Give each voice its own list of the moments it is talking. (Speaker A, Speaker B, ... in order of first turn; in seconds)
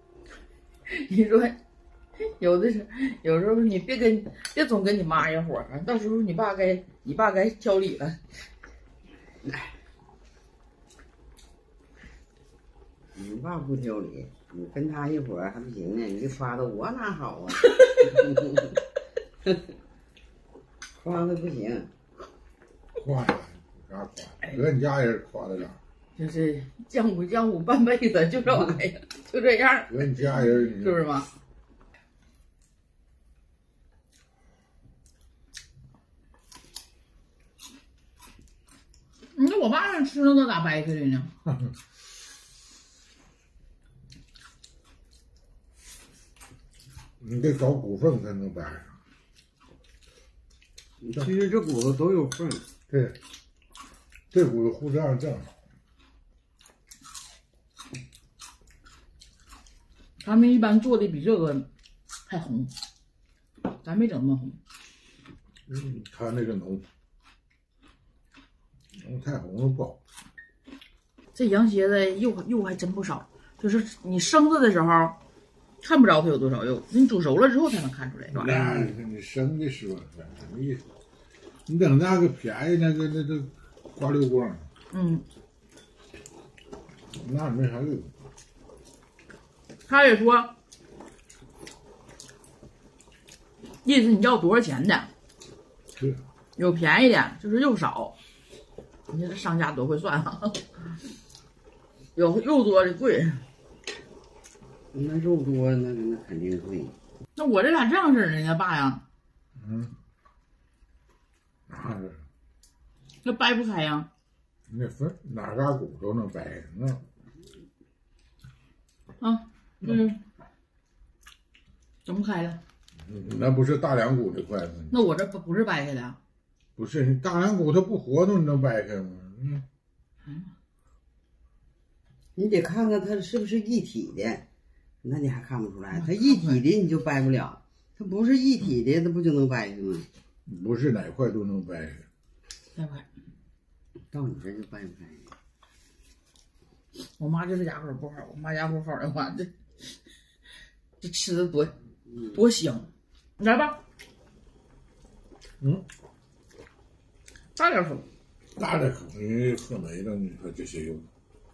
Speaker A: 0.8-1.6, 2.2-8.2, 17.6-18.4, 26.1-31.3, 39.3-41.3, 60.2-61.7, 62.3-62.7, 63.8-64.6, 71.3-75.2, 75.8-78.6, 84.9-85.2, 89.9-90.5, 93.8-95.1, 96.6-98.2, 99.1-100.8, 102.1-103.4, 107.3-109.0, 113.2-114.1, 119.2-120.2, 122.0-122.6, 124.9-126.2, 136.0-136.6, 142.7-143.1, 147.2-149.5, 151.0-151.7, 152.3-153.8, 157.6-158.1
Speaker B: 13.1-18.8, 21.0-21.9, 51.0-52.6, 104.9-106.9, 132.3-134.4, 135.0-140.1, 144.1-145.3, 152.1-152.4
Speaker C: 23.0-25.8, 29.9-31.0, 47.2-49.0, 52.9-53.2, 54.3-55.5, 65.7-66.8, 69.0-70.0, 78.3-80.8, 81.7-84.7, 87.1-88.1, 109.6-109.9, 111.7-112.2, 114.7-117.0, 123.0-124.9, 126.8-129.6, 140.5-142.0, 158.6-161.1